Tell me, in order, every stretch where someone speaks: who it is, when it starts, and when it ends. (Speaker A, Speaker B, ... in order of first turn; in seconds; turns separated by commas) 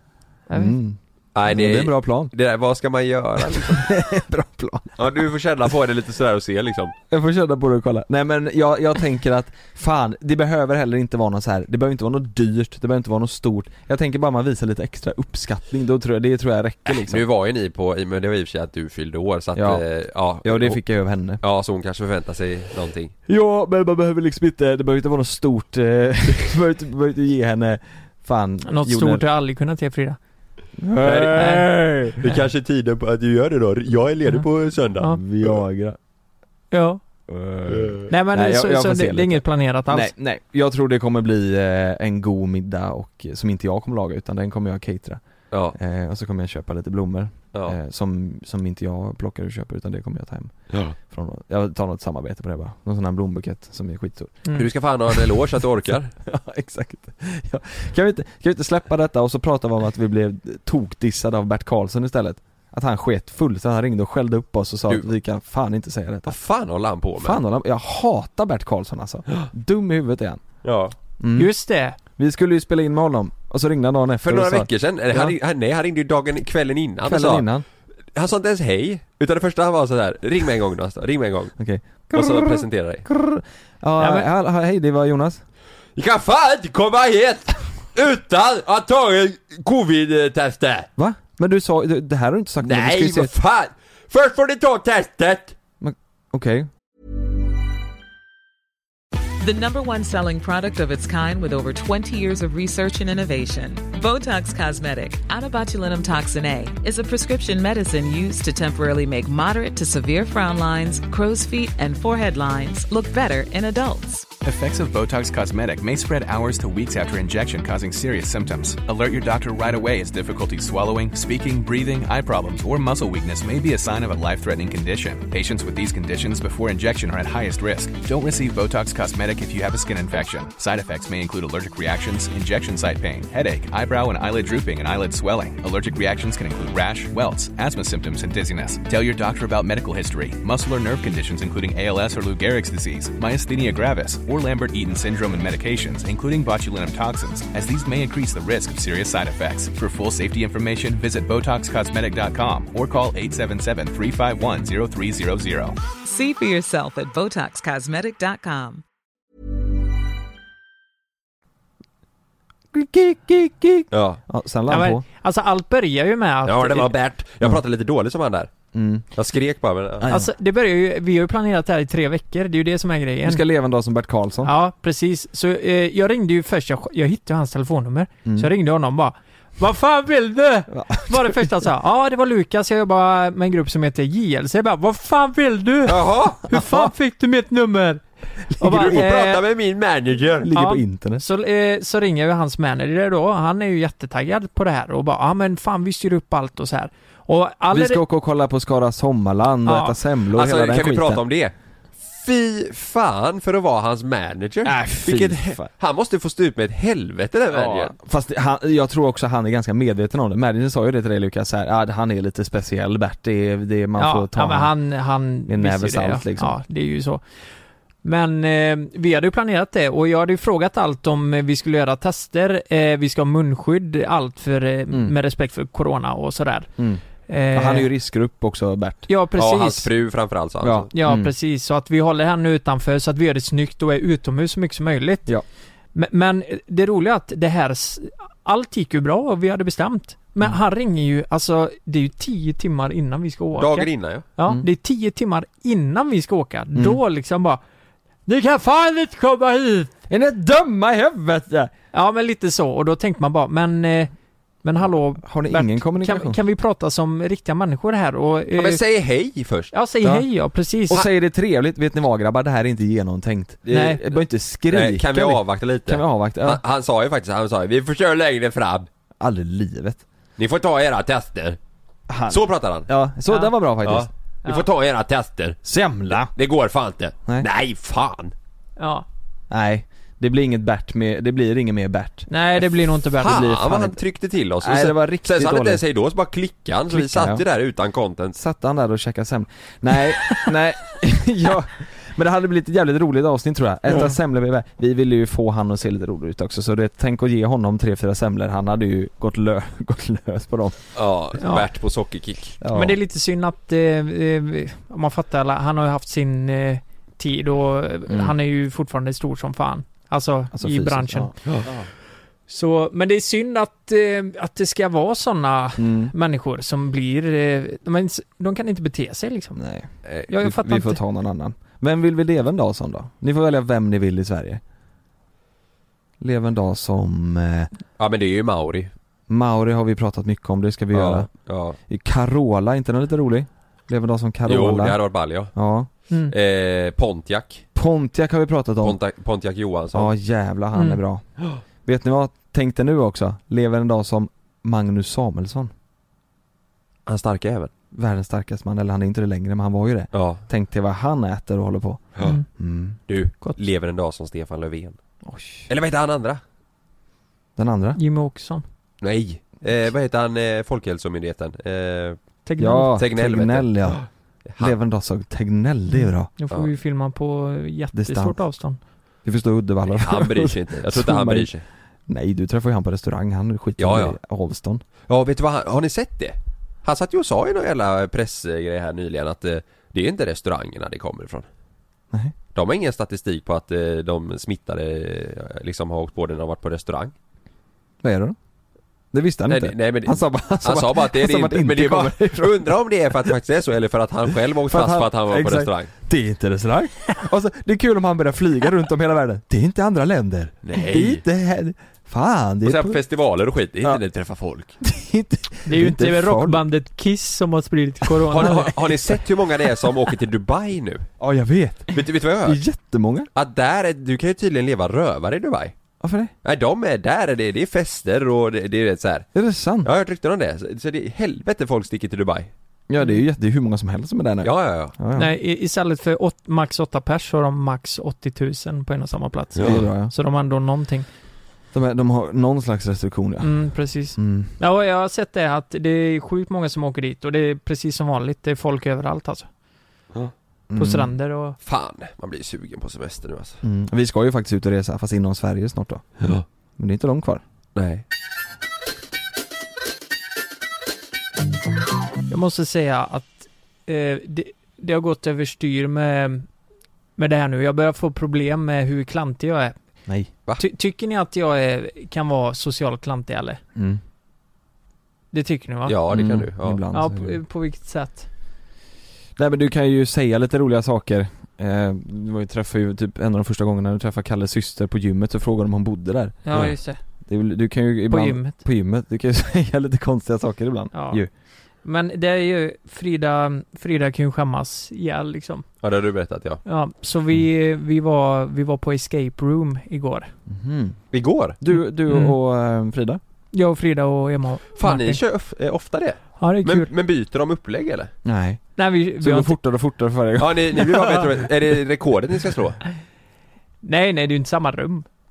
Speaker A: 0.5-0.8, Speaker B: 0.5-2.3, Speaker C: 1.3-3.9, Speaker B: 3.5-5.0, Speaker C: 5.0-6.9, Speaker B: 7.1-17.2, Speaker C: 16.9-20.8, Speaker B: 19.5-19.8, Speaker B: 20.4-21.4, Speaker C: 21.4-23.1, Speaker B: 23.3-29.2, Speaker A: 28.6-30.2, Speaker B: 30.8-32.2, Speaker C: 31.0-35.5, Speaker A: 31.4-31.7, Speaker B: 35.1-36.0, Speaker A: 36.7-37.0, Speaker B: 37.3-54.4, Speaker C: 37.7-38.1, Speaker A: 38.1-40.1, Speaker C: 45.5-45.8, Speaker C: 54.5-56.1, Speaker B: 55.1-55.4, Speaker B: 56.2-66.3, Speaker C: 66.2-67.4, Speaker B: 67.2-70.4, Speaker C: 70.6-70.9, Speaker B: 71.2-71.5, Speaker A: 71.3-72.0, Speaker B: 72.0-75.3, Speaker C: 74.2-77.5, Speaker B: 77.0-77.6, Speaker C: 78.1-81.5, Speaker B: 81.6-85.4, Speaker C: 82.1-83.0, Speaker A: 84.0-84.3, Speaker C: 86.0-90.9, Speaker B: 91.0-93.3, Speaker C: 92.6-95.5, Speaker B: 95.8-96.7, Speaker D: 99.4-114.3, Speaker E: 114.4-155.8, Speaker D: 156.0-158.8, Speaker B: 162.7-165.0, Speaker C: 163.9-164.2, Speaker A: 164.7-166.9, Speaker C: 166.4-168.5, Speaker B: 168.7-169.1, Speaker C: 169.1-170.1, Speaker B: 170.0-170.3, Speaker A: 170.1-173.4, Speaker B: 173.2-174.5, Speaker A: 174.4-188.0, Speaker B: 178.2-178.5, Speaker B: 180.7-181.4, Speaker C: 185.8-186.4, Speaker B: 186.5-186.9, Speaker B: 188.5-189.0, Speaker A: 188.6-189.4, Speaker C: 188.7-190.5, Speaker B: 190.4-191.2, Speaker A: 190.5-198.0, Speaker B: 197.7-201.2, Speaker A: 199.7-199.9, Speaker C: 200.3-207.9, Speaker B: 204.6-205.7, Speaker B: 207.5-214.7, Speaker A: 214.0-217.2, Speaker B: 215.4-216.6, Speaker A: 218.0-226.7, Speaker B: 226.8-229.1, Speaker A: 227.3-227.9, Speaker A: 229.1-229.9, Speaker C: 229.4-230.9, Speaker B: 230.6-231.3, Speaker A: 230.9-235.3, Speaker A: 235.9-247.6, Speaker C: 243.6-244.2, Speaker B: 246.7-247.0, Speaker A: 248.2-249.9, Speaker B: 250.1-251.7, Speaker A: 251.9-254.1, Speaker A: 254.6-258.8, Speaker B: 255.2-256.4, Speaker C: 258.6-259.7, Speaker A: 259.7-261.0, Speaker B: 260.0-260.3, Speaker B: 260.9-266.6, Speaker C: 263.6-264.0, Speaker A: 263.7-264.0, Speaker C: 264.7-268.9, Speaker B: 269.2-270.0, Speaker C: 270.4-271.6, Speaker B: 272.1-274.1, Speaker C: 272.3-272.9, Speaker C: 273.8-275.6, Speaker B: 275.6-276.3, Speaker C: 276.3-278.3, Speaker A: 278.8-279.1, Speaker B: 279.5-282.3, Speaker A: 282.3-283.8, Speaker C: 283.2-288.4, Speaker B: 283.2-283.9, Speaker B: 284.6-285.8, Speaker B: 286.9-287.4, Speaker B: 288.3-300.9, Speaker C: 300.9-302.6, Speaker A: 301.4-301.6, Speaker B: 302.6-303.0, Speaker A: 302.7-311.3, Speaker B: 308.1-308.3, Speaker B: 310.5-311.9, Speaker A: 312.5-319.6, Speaker B: 315.8-316.1, Speaker B: 319.6-324.6, Speaker A: 320.3-321.0, Speaker B: 326.2-327.7, Speaker C: 328.0-328.9, Speaker B: 329.3-331.3, Speaker C: 330.9-331.8, Speaker B: 331.9-335.9, Speaker C: 334.4-335.6, Speaker C: 336.3-337.6, Speaker B: 337.7-339.0, Speaker C: 338.8-340.1, Speaker B: 339.9-341.2, Speaker A: 340.7-341.0, Speaker B: 341.8-345.7, Speaker C: 347.1-347.7, Speaker B: 347.9-353.0, Speaker C: 350.1-350.4, Speaker A: 352.2-352.4, Speaker C: 353.1-355.0, Speaker B: 355.2-355.7, Speaker C: 355.7-356.4, Speaker B: 357.6-358.0, Speaker A: 357.9-358.6, Speaker C: 359.0-362.2, Speaker A: 362.4-363.0, Speaker B: 362.6-364.1, Speaker C: 362.9-364.7, Speaker B: 364.6-366.3, Speaker A: 365.9-368.8, Speaker B: 367.9-368.4, Speaker B: 369.2-371.5, Speaker C: 369.9-371.6, Speaker B: 372.1-374.8, Speaker C: 373.8-374.1, Speaker C: 375.1-381.5, Speaker C: 382.5-387.1, Speaker B: 388.0-388.4, Speaker B: 389.1-393.3, Speaker C: 389.5-395.9, Speaker B: 394.7-403.0, Speaker C: 400.6-401.2, Speaker C: 402.6-404.7, Speaker B: 404.8-406.6, Speaker A: 405.6-408.6, Speaker C: 408.3-411.1, Speaker B: 408.4-409.2, Speaker B: 411.2-413.3, Speaker C: 411.9-412.6, Speaker C: 413.3-415.7, Speaker B: 416.0-416.3, Speaker C: 416.4-419.3, Speaker B: 419.3-419.9, Speaker C: 419.8-422.5, Speaker B: 422.9-425.3, Speaker C: 424.4-424.9, Speaker A: 425.1-431.1, Speaker B: 429.6-430.1, Speaker B: 431.7-434.5, Speaker A: 433.4-439.5, Speaker B: 440.7-441.1, Speaker A: 440.7-441.6, Speaker C: 441.6-443.6, Speaker B: 443.6-446.2, Speaker B: 446.8-447.4, Speaker C: 447.7-448.0, Speaker A: 452.3-456.5, Speaker A: 457.2-459.7, Speaker A: 460.6-463.6, Speaker B: 463.7-464.0, Speaker A: 465.3-466.0, Speaker C: 465.9-466.8, Speaker B: 466.1-467.4, Speaker A: 466.9-468.3, Speaker B: 469.4-476.6, Speaker A: 476.4-477.0, Speaker B: 477.3-481.3, Speaker A: 478.1-478.5, Speaker A: 480.9-481.2, Speaker A: 481.8-485.6, Speaker C: 485.8-486.6, Speaker A: 486.6-490.3, Speaker B: 490.5-491.0, Speaker C: 491.1-491.6, Speaker B: 491.6-493.2, Speaker A: 492.1-492.3, Speaker A: 493.5-495.2, Speaker C: 494.8-498.1, Speaker A: 496.4-496.9, Speaker B: 498.2-501.2, Speaker A: 498.8-499.6, Speaker C: 500.4-502.8, Speaker A: 503.8-505.1